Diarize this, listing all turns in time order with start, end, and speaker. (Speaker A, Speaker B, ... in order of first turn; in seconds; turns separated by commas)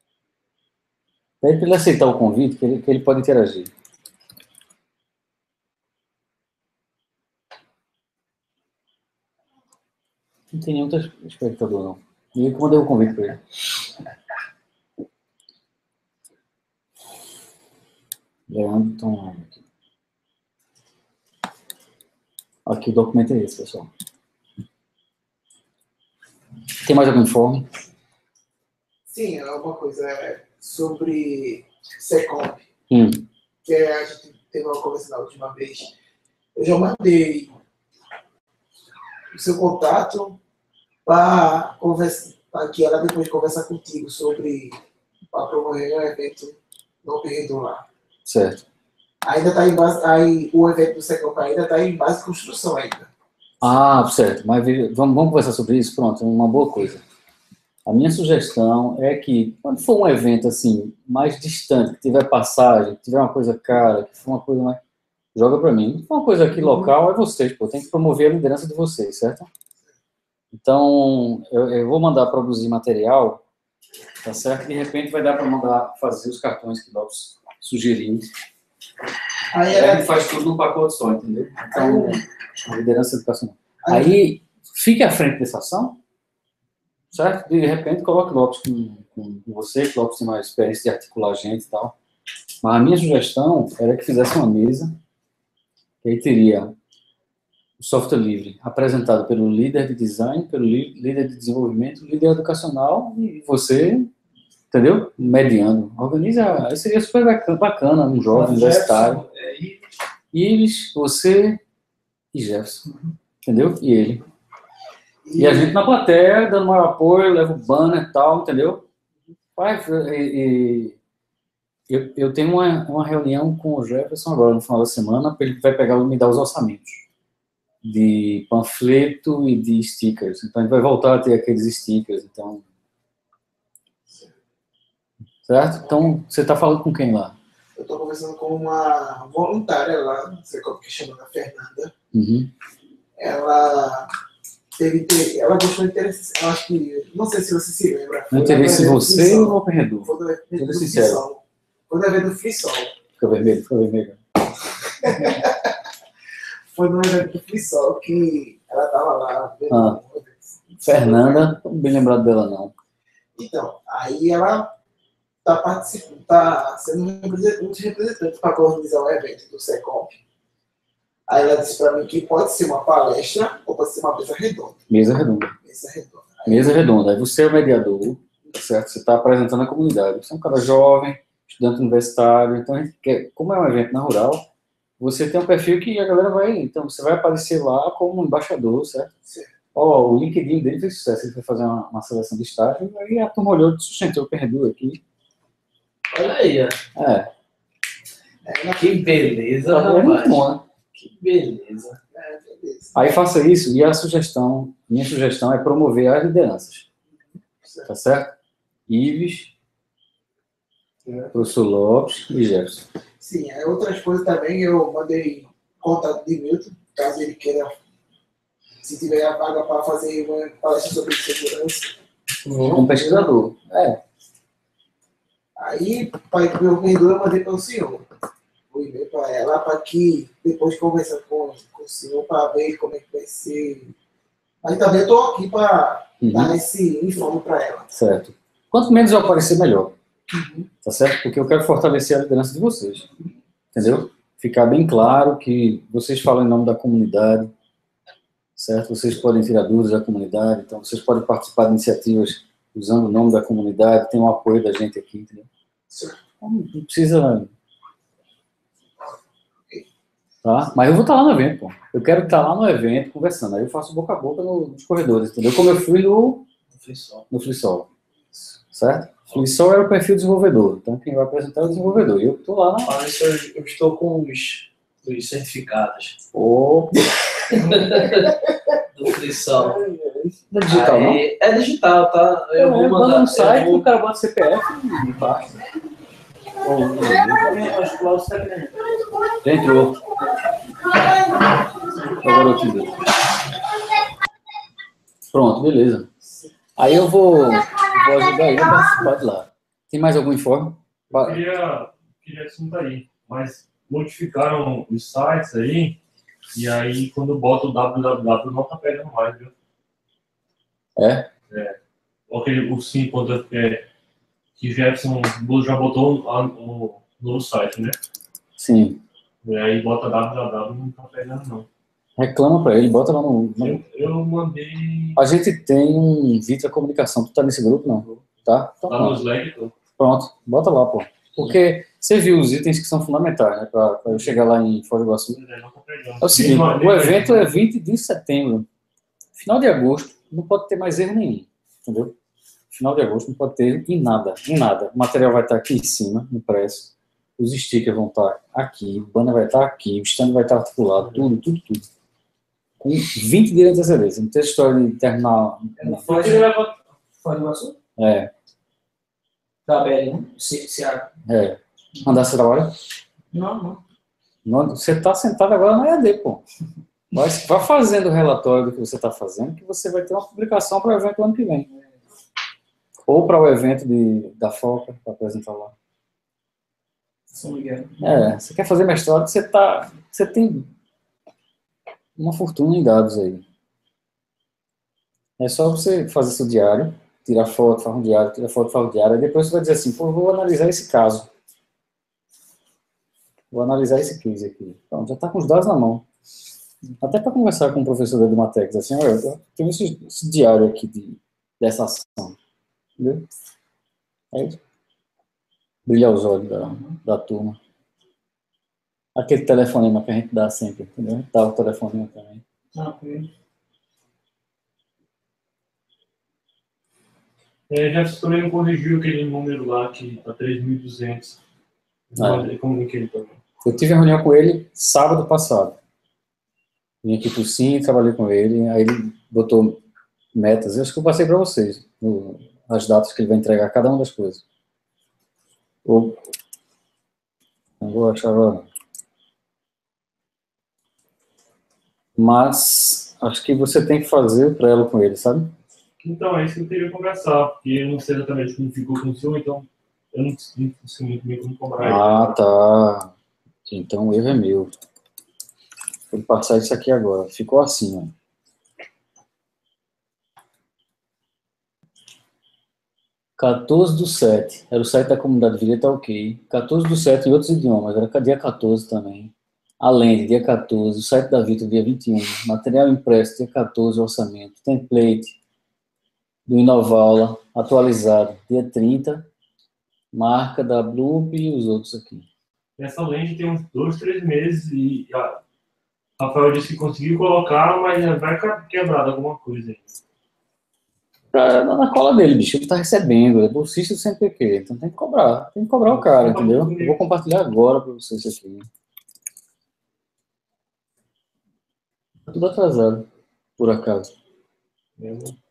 Speaker A: 1.4-3.7, Speaker A: 10.5-13.4, Speaker A: 18.5-19.6, Speaker A: 22.7-23.9, Speaker A: 26.8-27.7, Speaker B: 29.1-32.7, Speaker A: 32.9-33.3, Speaker B: 33.6-35.9, Speaker B: 36.5-37.5, Speaker B: 39.3-40.4, Speaker B: 41.0-44.8, Speaker B: 45.3-47.9, Speaker A: 48.2-48.6, Speaker B: 49.2-53.1, Speaker A: 53.6-57.0, Speaker A: 57.9-64.8, Speaker A: 65.3-69.5, Speaker A: 70.5-73.4, Speaker A: 74.2-78.3, Speaker B: 79.5-80.3, Speaker A: 79.7-86.0, Speaker B: 81.7-82.2, Speaker B: 83.9-84.1, Speaker A: 87.1-92.0, Speaker A: 92.6-95.0, Speaker A: 96.0-96.7, Speaker A: 97.8-104.1, Speaker A: 104.7-109.2, Speaker C: 108.3-109.8, Speaker A: 110.3-111.6, Speaker A: 112.3-112.8, Speaker C: 112.9-113.1, Speaker A: 113.4-114.2, Speaker B: 115.2-115.7, Speaker A: 115.4-118.8, Speaker A: 119.6-121.0, Speaker A: 121.9-127.0, Speaker A: 127.8-132.7, Speaker A: 135.4-137.4, Speaker B: 137.8-141.9, Speaker A: 142.1-142.5, Speaker B: 143.2-144.1, Speaker B: 144.8-149.5, Speaker A: 148.3-151.2, Speaker B: 150.1-152.9, Speaker A: 153.2-154.2, Speaker B: 155.0-155.7, Speaker B: 156.7-161.5, Speaker A: 159.7-160.0, Speaker A: 160.8-162.7, Speaker B: 163.4-164.7, Speaker B: 165.4-170.2, Speaker B: 171.3-174.8, Speaker A: 174.9-175.5, Speaker B: 175.6-176.8, Speaker A: 176.5-184.4, Speaker A: 185.0-189.1, Speaker A: 189.8-195.0, Speaker D: 196.1-196.8, Speaker A: 197.0-197.3, Speaker B: 198.4-199.4, Speaker D: 198.8-202.0, Speaker A: 199.7-200.6, Speaker B: 202.1-203.0, Speaker A: 202.9-206.8, Speaker B: 207.6-207.9, Speaker A: 207.9-208.4, Speaker A: 208.9-209.5, Speaker B: 211.1-211.3, Speaker A: 211.3-212.9, Speaker B: 213.2-217.7, Speaker B: 218.8-221.9, Speaker A: 222.7-224.0, Speaker B: 225.6-228.1, Speaker B: 228.7-233.9, Speaker B: 234.6-237.9, Speaker A: 236.2-236.6, Speaker A: 237.9-239.9, Speaker A: 240.8-243.1, Speaker A: 243.7-247.5, Speaker A: 248.6-255.5, Speaker B: 255.9-256.2, Speaker A: 256.4-257.5, Speaker A: 260.4-266.5, Speaker D: 266.7-267.3, Speaker A: 267.3-267.9, Speaker A: 268.6-273.0, Speaker D: 272.9-276.2, Speaker A: 276.3-277.7, Speaker D: 277.5-278.4, Speaker D: 278.9-279.8, Speaker A: 280.5-281.2, Speaker D: 280.7-283.9, Speaker A: 282.6-285.5, Speaker A: 286.6-287.7, Speaker C: 287.4-288.9, Speaker A: 289.4-290.0, Speaker A: 292.2-293.0, Speaker A: 295.3-296.1, Speaker A: 296.8-301.4, Speaker E: 301.1-306.0, Speaker E: 306.5-309.5, Speaker A: 311.0-311.3, Speaker E: 311.5-311.8, Speaker E: 312.3-313.8, Speaker E: 314.6-318.0, Speaker A: 318.6-319.0, Speaker E: 319.4-321.7, Speaker A: 322.2-323.9, Speaker E: 323.6-325.2, Speaker A: 325.2-329.2, Speaker E: 328.9-329.7, Speaker A: 330.0-335.4, Speaker E: 334.1-334.4, Speaker E: 335.4-337.5, Speaker A: 336.2-338.7, Speaker A: 339.4-342.1, Speaker A: 342.7-351.9, Speaker E: 351.0-351.3, Speaker A: 352.8-356.1, Speaker C: 355.8-356.5, Speaker E: 356.1-356.8, Speaker C: 357.2-357.8, Speaker A: 358.0-358.3, Speaker C: 359.7-361.1, Speaker A: 361.2-362.7, Speaker C: 363.3-363.8, Speaker A: 364.4-366.4, Speaker A: 367.1-371.7, Speaker A: 373.1-375.7, Speaker C: 377.3-378.0, Speaker A: 378.0-380.7, Speaker A: 382.2-383.4, Speaker A: 385.4-391.3, Speaker A: 393.5-396.1, Speaker A: 397.0-402.4, Speaker A: 403.0-403.3, Speaker A: 404.3-404.6, Speaker A: 405.9-407.6, Speaker C: 406.6-407.0, Speaker A: 409.1-412.4, Speaker C: 412.7-413.3, Speaker E: 417.7-421.4, Speaker E: 422.1-423.4, Speaker A: 422.2-422.5, Speaker A: 423.6-425.8, Speaker A: 427.0-429.8, Speaker A: 430.3-434.4, Speaker A: 435.9-436.3, Speaker A: 437.8-438.7, Speaker A: 442.2-445.5, Speaker E: 446.0-452.4, Speaker A: 451.8-453.1, Speaker A: 453.7-454.7, Speaker A: 456.1-458.1, Speaker A: 463.4-475.4, Speaker A: 476.5-479.3, Speaker A: 480.1-482.3, Speaker E: 482.8-485.4, Speaker E: 486.2-489.9, Speaker A: 491.3-498.7, Speaker E: 495.9-497.0, Speaker A: 502.3-503.1, Speaker A: 503.6-504.1, Speaker E: 505.0-505.4